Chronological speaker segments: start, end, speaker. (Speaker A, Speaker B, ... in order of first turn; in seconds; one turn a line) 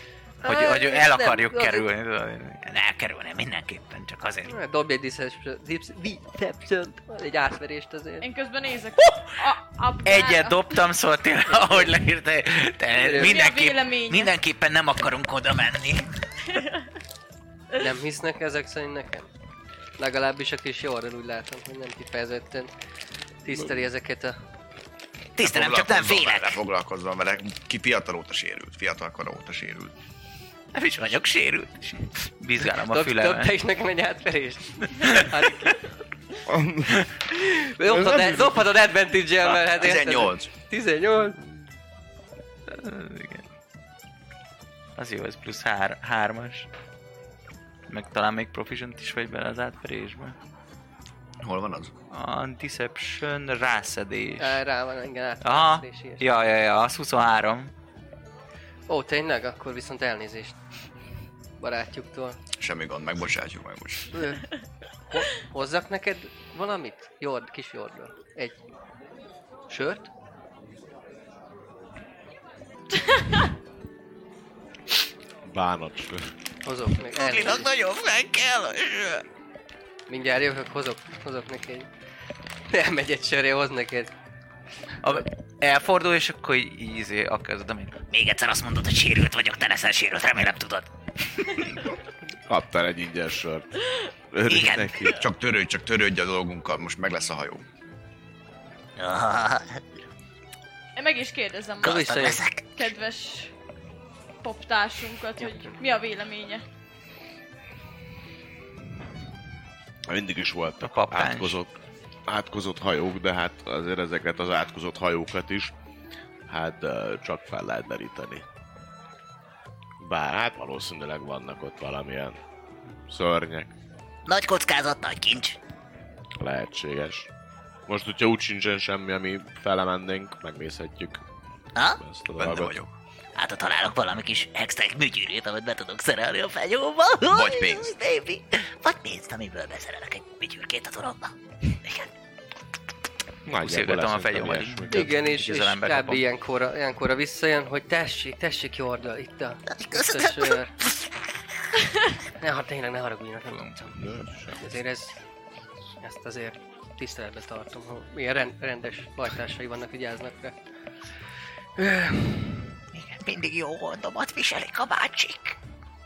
Speaker A: 0.4-1.9
Speaker B: 0.5-2.7
Speaker C: 2.6-4.5
Speaker A: 4.5-8.3
Speaker D: 8.2-10.8
Speaker B: 10.1-13.6
Speaker A: 12.9-13.3
Speaker D: 13.2-14.3
Speaker C: 13.3-16.1
Speaker D: 16.5-16.8
Speaker A: 17.8-19.3
Speaker A: 20.0-22.7
Speaker A: 23.4-24.4
Speaker C: 25.4-26.6
Speaker E: 25.4-29.9
Speaker C: 30.8-32.0
Speaker B: 32.4-33.5
Speaker A: 32.8-35.9
Speaker B: 35.0-35.2
Speaker F: 36.5-37.1
Speaker A: 37.3-41.4
Speaker F: 37.9-38.6
Speaker E: 39.8-40.5
Speaker B: 42.7-43.4
Speaker B: 45.0-46.7
Speaker B: 47.9-50.4
Speaker E: 51.4-51.9
Speaker B: 52.1-54.6
Speaker A: 54.4-56.3
Speaker B: 55.4-57.7
Speaker A: 58.9-60.6
Speaker A: 61.6-62.4
Speaker E: 62.6-64.1
Speaker A: 64.1-64.4
Speaker A: 65.1-68.6
Speaker A: 69.7-70.1
Speaker D: 73.0-73.5
Speaker F: 75.4-76.3
Speaker A: 76.7-77.7
Speaker C: 77.1-79.2
Speaker A: 80.1-81.9
Speaker A: 82.7-84.1
Speaker B: 85.0-88.0
Speaker C: 88.1-90.9
Speaker F: 92.5-93.7
Speaker F: 94.3-95.2
Speaker C: 94.5-95.1
Speaker E: 95.2-97.6
Speaker C: 99.0-99.8
Speaker D: 101.0-103.5
Speaker C: 101.8-102.8
Speaker A: 101.8-102.4
Speaker D: 104.4-106.6
Speaker A: 105.4-105.8
Speaker F: 110.1-111.7
Speaker B: 110.8-111.6
Speaker F: 112.3-115.7
Speaker F: 116.5-118.5
Speaker F: 120.0-122.4
Speaker F: 123.1-123.7
Speaker C: 124.3-125.6
Speaker F: 126.4-127.3
Speaker F: 127.9-131.2
Speaker C: 131.8-132.0
Speaker F: 132.0-132.8
Speaker E: 132.4-132.9
Speaker C: 133.4-141.3
Speaker E: 137.3-137.9
Speaker F: 143.5-145.3
Speaker B: 143.6-146.2
Speaker A: 144.9-150.8
Speaker C: 149.7-150.6
Speaker A: 152.4-155.2
Speaker F: 154.0-154.7
Speaker A: 156.0-160.6
Speaker A: 161.8-162.7
Speaker C: 162.9-165.6